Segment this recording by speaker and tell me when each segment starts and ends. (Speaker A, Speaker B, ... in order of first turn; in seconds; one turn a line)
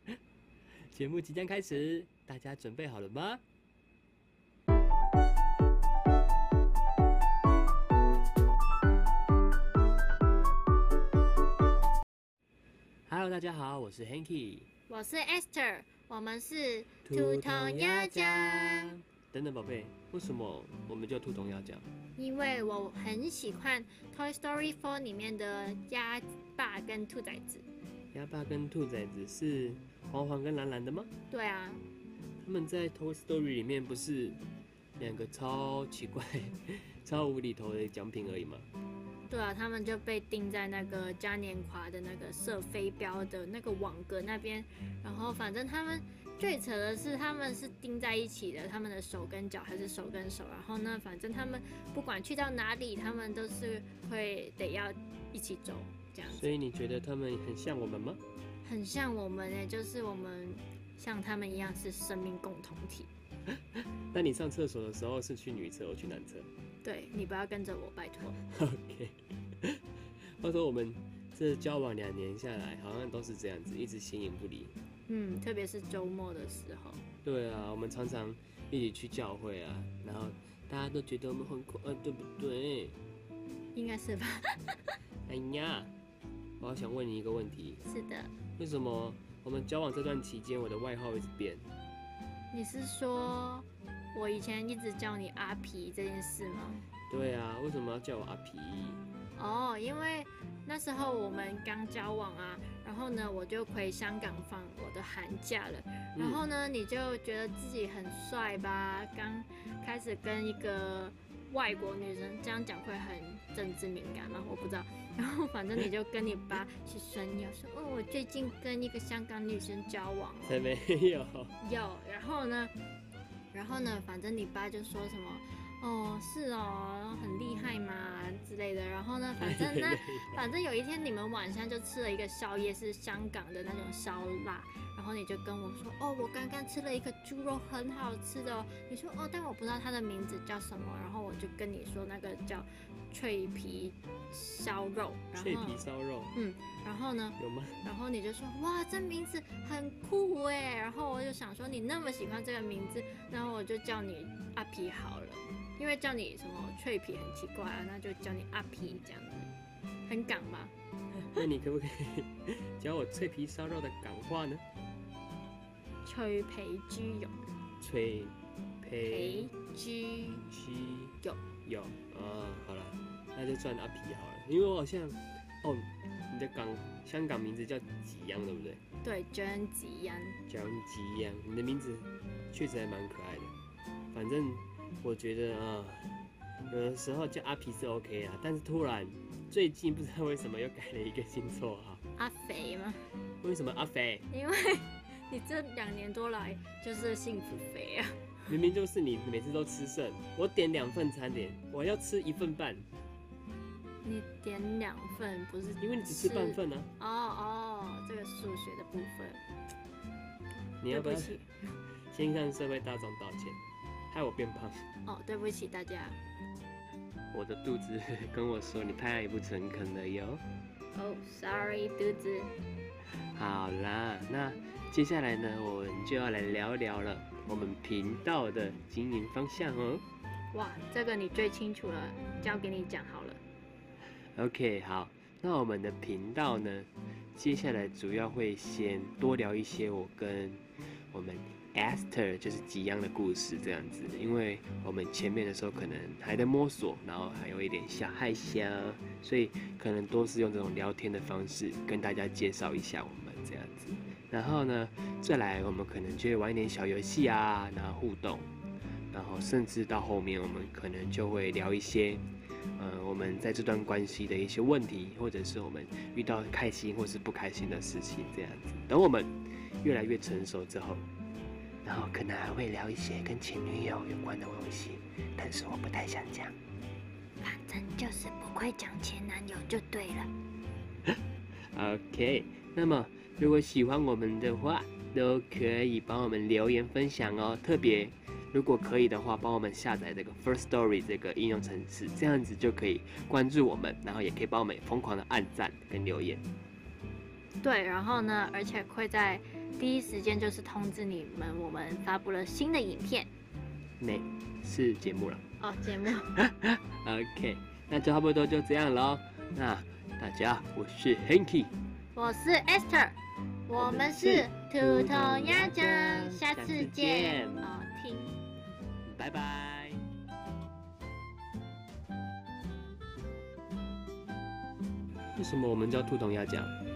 Speaker A: 0.9-3.4
Speaker A: 13.1-14.7
Speaker B: 14.9-18.9
Speaker A: 17.0-21.9
Speaker B: 22.2-27.6
Speaker A: 28.1-31.1
Speaker B: 31.3-31.8
Speaker A: 32.4-34.4
Speaker A: 35.0-38.7
Speaker B: 39.3-56.5
Speaker A: 56.3-58.2
Speaker B: 58.6-63.1
Speaker A: 63.5-66.5
Speaker B: 66.8-68.4
Speaker A: 68.4-69.8
Speaker A: 70.4-74.7
Speaker B: 75.1-77.0
Speaker A: 77.2-83.0
Speaker B: 83.7-85.0
Speaker A: 85.2-85.9
Speaker A: 86.6-87.8
Speaker B: 87.8-88.3
Speaker A: 88.6-91.6
Speaker B: 92.5-96.8
Speaker A: 97.1-99.0
Speaker B: 99.4-120.6
Speaker A: 106.1-106.4
Speaker A: 120.5-121.5
Speaker B: 121.6-122.7
Speaker B: 123.5-159.5
Speaker A: 129.4-130.4
Speaker A: 145.3-146.3
Speaker A: 147.4-147.8
Speaker B: 160.1-160.7
Speaker A: 161.3-164.6
Speaker B: 166.0-167.3
Speaker A: 167.8-169.5
Speaker B: 169.1-170.5
Speaker A: 170.5-178.8
Speaker B: 179.0-180.4
Speaker A: 180.5-183.5
Speaker A: 184.1-192.0
Speaker B: 192.2-193.1
Speaker A: 193.4-194.2
Speaker B: 194.3-198.3
Speaker A: 198.5-202.9
Speaker B: 204.0-209.4
Speaker A: 205.8-206.9
Speaker A: 210.8-211.3
Speaker B: 210.9-211.5
Speaker A: 212.1-214.8
Speaker B: 215.1-216.2
Speaker A: 217.3-220.4
Speaker B: 220.9-222.5
Speaker A: 223.3-230.0
Speaker B: 230.5-233.4
Speaker A: 234.3-240.6
Speaker A: 241.1-258.5
Speaker A: 259.1-262.2
Speaker A: 262.8-271.1
Speaker A: 271.8-276.5
Speaker B: 277.4-280.3
Speaker A: 281.7-296.4
Speaker B: 297.6-303.3
Speaker A: 304.0-305.4
Speaker B: 305.6-306.3
Speaker A: 306.3-311.7
Speaker B: 312.1-318.3
Speaker A: 313.7-317.7
Speaker A: 319.0-320.0
Speaker A: 325.4-326.7